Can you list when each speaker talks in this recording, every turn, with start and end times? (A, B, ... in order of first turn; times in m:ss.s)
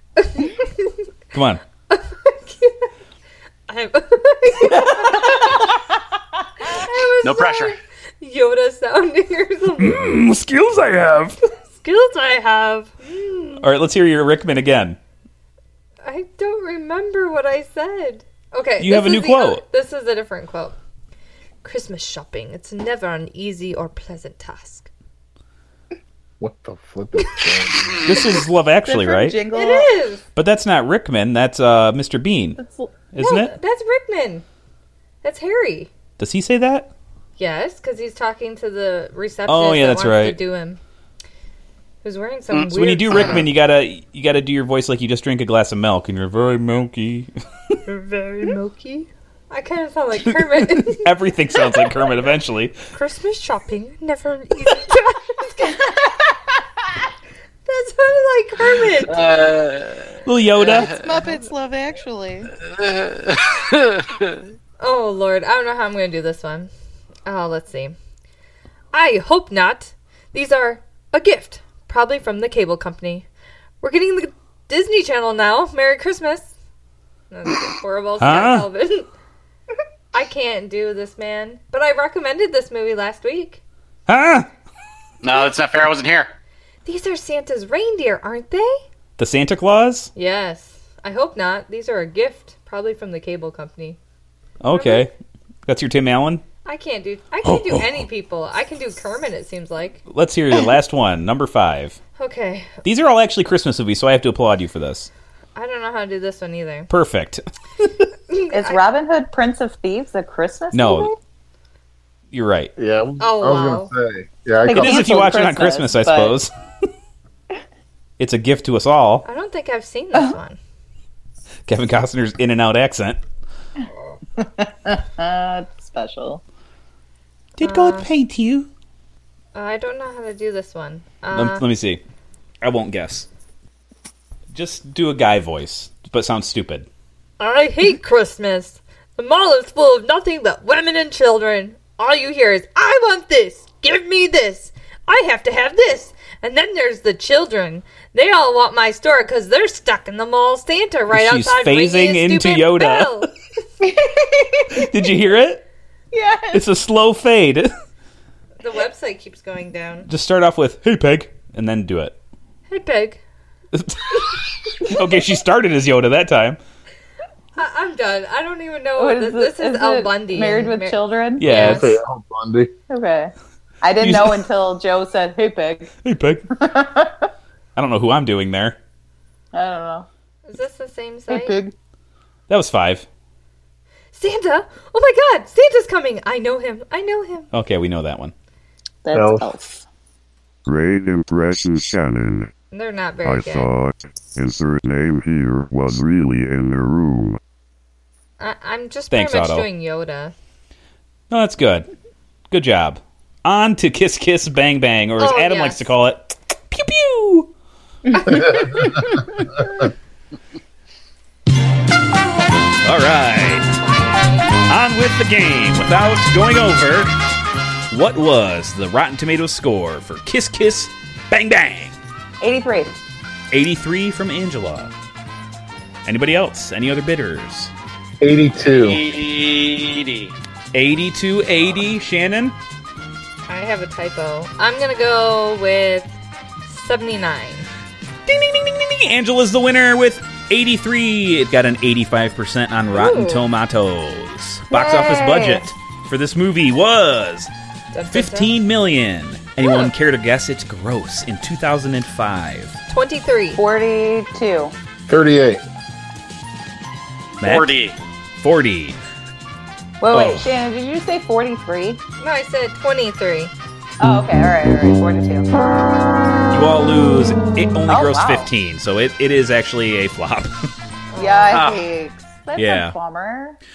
0:00.2-0:01.0 A
0:01.3-0:01.6 B
0:01.9-0:02.9 A
0:03.7-0:05.7 A
0:06.7-0:10.2 A
0:07.2-0:07.8 C
0:09.8-0:11.4 B
0:11.7-0:13.7 A
0:13.6-0:15.0 B
0:16.0-0:20.8 A
0:18.8-0:19.6 B
0:21.6-0:24.9 A
0:26.4-0:28.3 D
0:28.0-0:29.4 B
0:28.8-0:29.9 E
0:29.5-0:30.2 A
0:30.4-0:32.6 B
0:32.6-0:32.9 E
0:33.1-0:33.5 B
0:33.2-0:34.4 A
0:35.2-0:35.9 A
0:36.2-0:36.9 B
0:37.4-0:40.8 A
0:39.5-0:40.4 B
0:42.0-0:43.5 A
0:42.5-0:43.4 C
0:42.7-0:47.8 B
0:47.9-0:51.1 A
0:50.3-0:52.8 B
0:52.9-0:55.9 A
0:55.7-0:57.0 E
0:57.7-0:59.2 A
0:59.1-1:01.0 C
1:00.3-1:00.9 B
1:00.6-1:02.5 E
1:02.6-1:04.3 C
1:04.8-1:06.7 A
1:07.3-1:08.0 A
1:08.9-1:13.3 A
1:13.8-1:16.5 A
1:17.3-1:19.1 A
1:18.2-1:18.7 B
1:20.1-1:23.6 A
1:24.1-1:24.5 B
1:25.2-1:26.3 C
1:26.8-1:28.8 A
1:29.2-1:30.1 B
1:30.2-1:34.0 A
1:34.6-1:35.1 B
1:34.7-1:35.1 A
1:35.7-1:36.4 B
1:36.6-1:40.0 A
1:37.4-1:38.0 B
1:40.1-1:42.0 B
1:42.2-1:42.8 A
1:42.8-1:45.1 B
1:45.6-1:46.9 A
1:46.9-1:48.0 B
1:48.3-1:48.8 A
1:48.5-1:51.1 E
1:50.7-1:51.1 B
1:52.3-1:52.7 B
1:52.8-1:55.2 D
1:53.2-1:53.9 A
1:54.6-1:56.4 E
1:54.8-1:56.5 B
1:58.2-1:59.2 B
1:59.2-2:00.6 A
2:01.7-2:03.2 B
2:04.4-2:06.4 E
2:07.6-2:08.7 B
2:07.6-2:08.1 A
2:09.6-2:11.6 A
2:11.3-2:12.0 B
2:12.6-2:13.3 B
2:14.5-2:16.9 B
2:17.4-2:33.3 A
2:31.1-2:33.3 B
2:33.8-2:34.9 E
2:34.7-2:35.6 B
2:36.1-2:36.7 E
2:36.5-2:37.7 B
2:38.6-2:40.1 A
2:40.1-2:42.2 B
2:42.7-2:43.2 A
2:43.7-2:46.6 B
2:47.6-2:52.0 A
2:49.0-2:51.6 E
2:51.4-2:51.9 B
2:51.5-2:52.7 D
2:52.9-2:55.9 E
2:54.0-2:54.5 B
2:56.0-2:56.4 B
2:56.5-2:57.3 E
2:57.8-2:58.8 B
2:59.5-3:00.1 E
3:00.5-3:01.6 A
3:01.3-3:01.7 E
3:02.5-3:03.1 B
3:04.1-3:07.5 A
3:07.5-3:08.3 B
3:09.0-3:09.8 E
3:09.1-3:09.5 D
3:10.7-3:12.5 F
3:12.7-3:13.7 A
3:13.2-3:17.4 F
3:18.4-3:20.3 A
3:19.1-3:19.7 B
3:21.3-3:21.9 B
3:22.5-3:27.5 B
3:25.2-3:25.9 A
3:28.1-3:29.4 E
3:28.3-3:28.8 D
3:32.8-3:33.7 B
3:33.7-3:34.6 A
3:34.7-3:37.1 B
3:37.9-3:42.0 B
3:42.4-3:43.0 E
3:43.5-3:44.9 B
3:46.0-3:47.7 B
3:48.2-3:49.0 D
3:48.7-3:50.3 C
3:50.7-3:52.6 B
3:53.5-3:56.1 A
3:56.7-3:57.7 A
3:58.3-4:07.5 B
4:02.9-4:03.5 A
4:04.7-4:05.7 E
4:07.9-4:08.6 A
4:08.1-4:12.8 B
4:12.9-4:13.6 A
4:13.6-4:14.7 E
4:15.1-4:15.6 D
4:17.4-4:17.7 B
4:17.4-4:18.0 C
4:18.4-4:19.0 B
4:20.0-4:22.0 E
4:20.1-4:20.5 B
4:22.2-4:23.5 A
4:24.0-4:25.5 E
4:26.5-4:30.7 B
4:27.9-4:28.5 E
4:31.1-4:31.6 A
4:31.2-4:33.6 E
4:31.5-4:31.8 C
4:32.6-4:33.0 B